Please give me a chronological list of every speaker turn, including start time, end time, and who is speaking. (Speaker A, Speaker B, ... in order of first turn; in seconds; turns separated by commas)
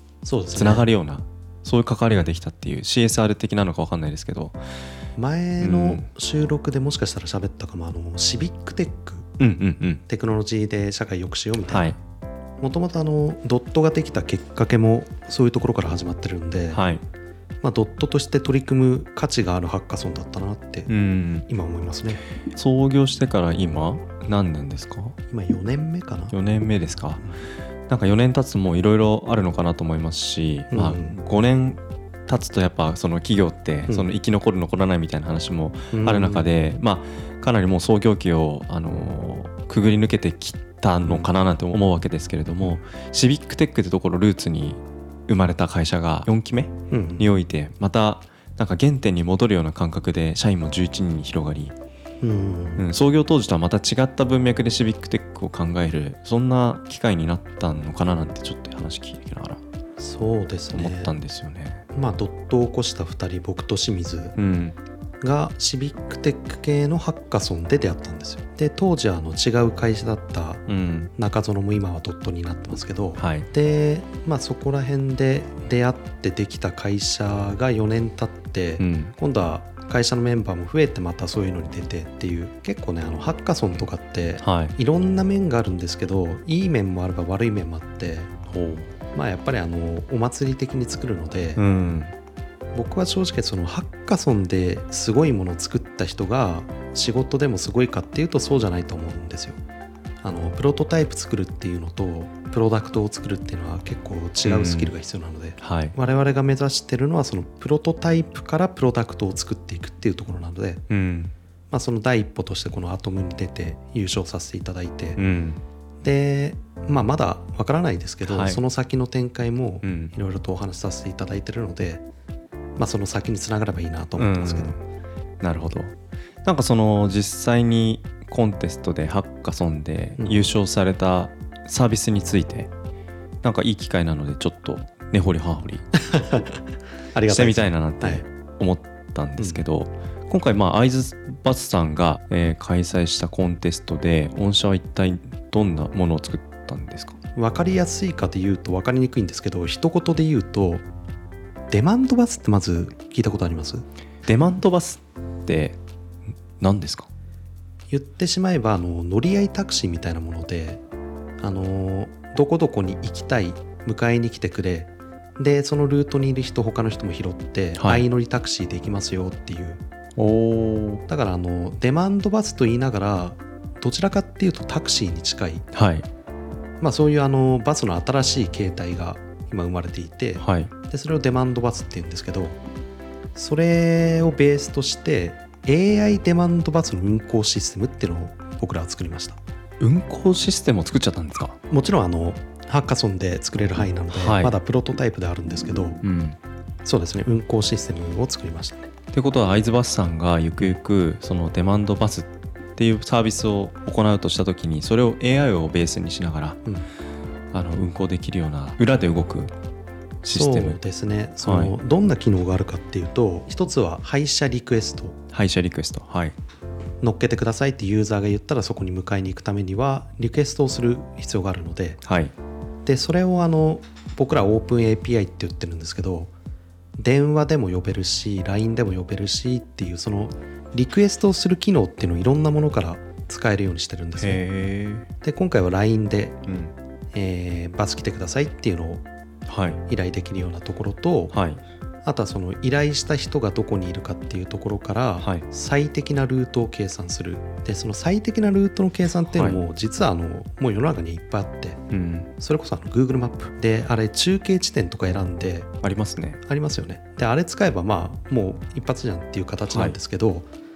Speaker A: 0.2-0.9, Speaker B: 0.5-4.6, Speaker A: 5.2-9.3, Speaker B: 5.6-6.0, Speaker B: 9.4-10.0, Speaker A: 10.1-11.9, Speaker B: 11.7-12.0, Speaker A: 12.6-16.8, Speaker B: 16.7-17.0, Speaker A: 17.6-20.9, Speaker B: 20.9-21.5, Speaker A: 21.5-22.2, Speaker B: 22.5-25.1, Speaker A: 25.3-26.3, Speaker B: 26.3-27.2, Speaker B: 27.9-51.7, Speaker A: 30.7-31.2, Speaker A: 35.9-36.5, Speaker A: 46.9-47.3, Speaker A: 52.2-52.9, Speaker B: 52.8-59.6, Speaker A: 60.0-61.1, Speaker B: 60.7-61.8, Speaker A: 61.9-64.3, Speaker B: 64.3-64.8, Speaker A: 65.2-88.3, Speaker B: 70.7-71.1, Speaker B: 73.2-73.5, Speaker B: 78.8-79.1, Speaker B: 84.4-84.8, Speaker B: 88.5-89.0, Speaker A: 89.1-91.6, Speaker B: 91.6-92.1, Speaker A: 92.7-99.6, Speaker A: 100.2-110.8, Speaker B: 104.4-104.9, Speaker B: 105.6-106.0, Speaker B: 110.9-111.3, Speaker A: 111.7-115.2, Speaker B: 115.2-115.6, Speaker A: 116.0-122.0, Speaker B: 118.2-118.6, Speaker B: 119.8-120.1, Speaker A: 122.8-124.7, Speaker B: 124.2-124.8, Speaker B: 125.4-125.9, Speaker B: 126.4-132.7, Speaker A: 130.2-130.5, Speaker B: 133.4-135.8, Speaker A: 136.0-136.6, Speaker A: 137.1-138.2, Speaker B: 137.3-147.2, Speaker A: 139.4-139.6, Speaker A: 147.3-150.8, Speaker A: 151.7-153.8, Speaker B: 154.2-155.8, Speaker B: 156.6-157.1, Speaker A: 157.9-160.8, Speaker A: 161.4-169.8, Speaker B: 167.8-168.0, Speaker B: 170.2-171.0, Speaker A: 171.1-175.6, Speaker B: 175.7-176.1, Speaker A: 176.8-182.6, Speaker B: 180.4-180.7, Speaker A: 183.3-189.4, Speaker B: 189.8-191.5, Speaker A: 191.7-196.0, Speaker B: 194.1-194.5, Speaker B: 196.0-196.4, Speaker A: 196.8-198.9, Speaker B: 199.1-206.6, Speaker B: 207.5-209.5, Speaker B: 210.2-210.8, Speaker A: 210.3-215.2, Speaker B: 211.4-211.7, Speaker B: 215.3-216.3, Speaker A: 217.0-222.0, Speaker B: 222.0-222.3, Speaker A: 222.8-226.3, Speaker A: 227.0-234.4, Speaker B: 234.2-235.1, Speaker A: 235.2-236.4, Speaker B: 236.4-236.7, Speaker A: 237.1-239.0, Speaker B: 239.5-239.8, Speaker A: 239.9-241.4, Speaker B: 241.3-241.6, Speaker A: 242.0-251.8, Speaker B: 249.3-249.6, Speaker B: 251.9-252.3, Speaker A: 252.4-255.7, Speaker B: 255.8-256.4, Speaker A: 256.4-260.5, Speaker B: 259.7-259.9